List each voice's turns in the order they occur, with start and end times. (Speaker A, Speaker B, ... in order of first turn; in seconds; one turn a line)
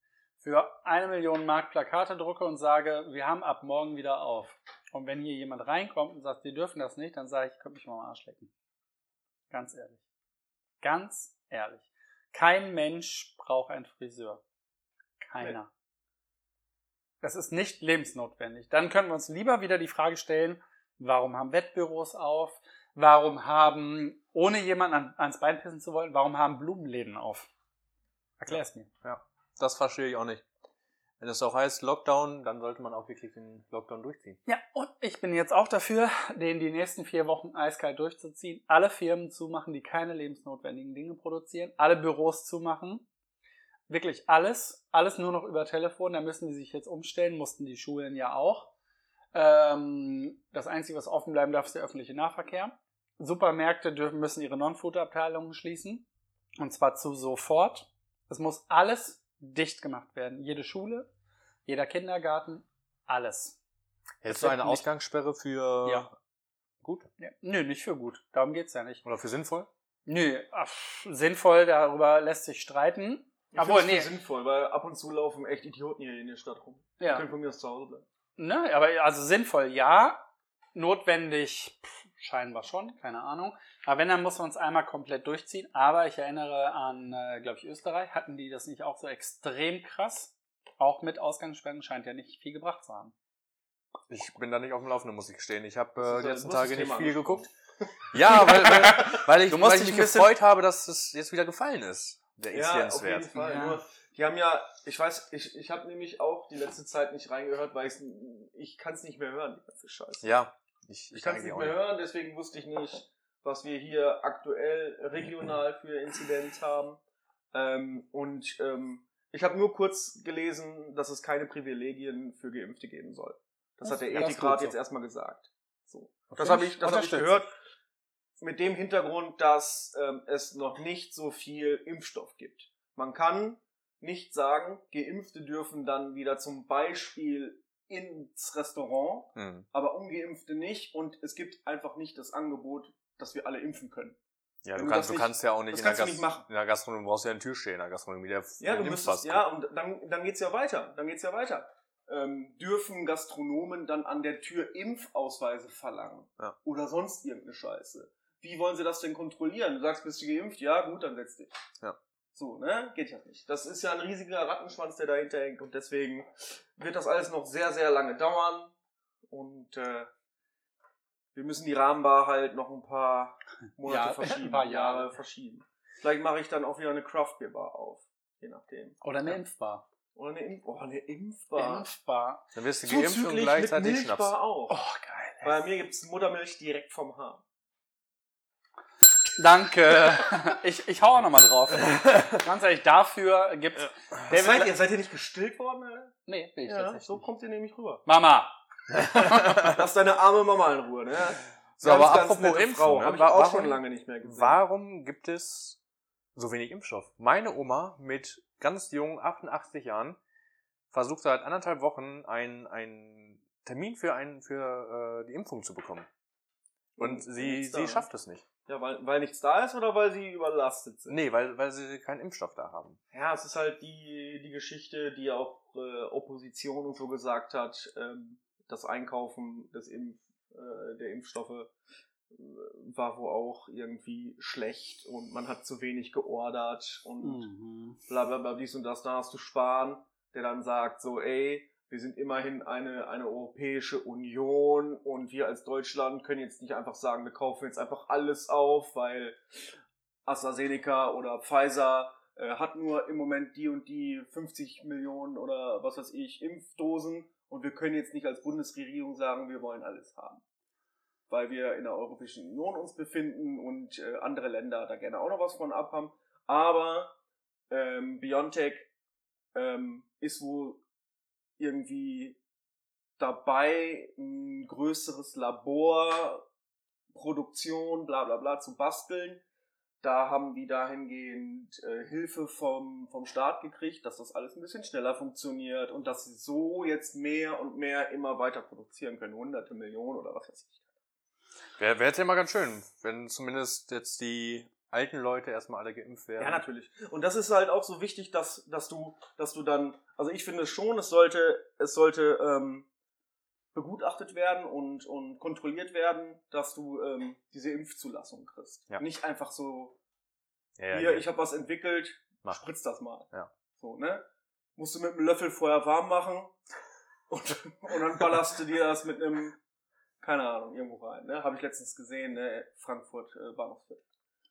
Speaker A: 0.4-8.5
Speaker A: 9.5-10.0
Speaker A: 10.8-14.4
Speaker A: 15.2-15.7
Speaker A: 17.2-27.5
Speaker A: 28.4-28.9
Speaker B: 28.5-30.4
Speaker B: 31.2-34.4
Speaker A: 34.5-43.1
Speaker A: 43.9-48.7
Speaker A: 49.3-56.1
Speaker A: 56.6-61.1
Speaker A: 61.7-63.6
Speaker B: 64.2-66.1
Speaker A: 64.3-64.8
Speaker B: 66.8-67.1
Speaker A: 67.2-69.0
Speaker B: 69.0-69.7
Speaker A: 70.1-74.1
Speaker C: 73.5-78.0
Speaker A: 77.0-77.3
Speaker A: 78.4-93.1
Speaker B: 94.1-97.5
Speaker C: 96.0-97.5
Speaker C: 98.1-98.6
Speaker B: 98.1-103.4
Speaker A: 98.3-100.3
Speaker C: 102.5-110.3
Speaker A: 103.3-103.8
Speaker B: 110.2-111.8
Speaker C: 111.1-117.0
Speaker C: 117.5-127.5
Speaker A: 123.8-124.8
Speaker A: 126.3-127.5
Speaker C: 128.4-144.2
Speaker B: 139.4-139.7
Speaker B: 144.6-149.5
Speaker C: 144.8-146.5
Speaker C: 148.6-161.6
Speaker C: 162.3-168.7
Speaker C: 169.3-170.1
Speaker C: 171.3-179.0
Speaker A: 173.8-175.1
Speaker A: 179.0-179.8
Speaker C: 180.2-181.9
Speaker A: 181.6-182.4
Speaker B: 182.5-184.3
Speaker C: 182.8-184.8
Speaker A: 184.7-185.6
Speaker C: 185.4-187.4
Speaker A: 189.4-194.7
Speaker C: 194.3-198.1
Speaker A: 196.3-197.2
Speaker A: 198.1-199.6
Speaker C: 199.3-204.6
Speaker B: 201.8-205.8
Speaker B: 206.3-210.2
Speaker B: 210.9-216.1
Speaker C: 217.0-218.1
Speaker B: 217.0-218.5
Speaker C: 218.7-221.2
Speaker B: 221.1-223.0
Speaker C: 223.1-231.7
Speaker C: 232.3-237.5
Speaker A: 237.2-238.0
Speaker C: 238.1-249.6
Speaker C: 250.3-260.4
Speaker C: 261.3-267.1
Speaker C: 267.7-268.9
Speaker C: 269.5-270.8
Speaker C: 271.6-272.4
Speaker C: 273.2-276.5
Speaker C: 277.1-279.4
Speaker C: 280.0-290.9
Speaker B: 291.8-296.6
Speaker C: 296.4-302.9
Speaker C: 303.7-310.0
Speaker B: 310.8-311.3
Speaker C: 310.9-314.2
Speaker C: 314.8-316.5
Speaker C: 317.3-319.6
Speaker C: 320.2-324.0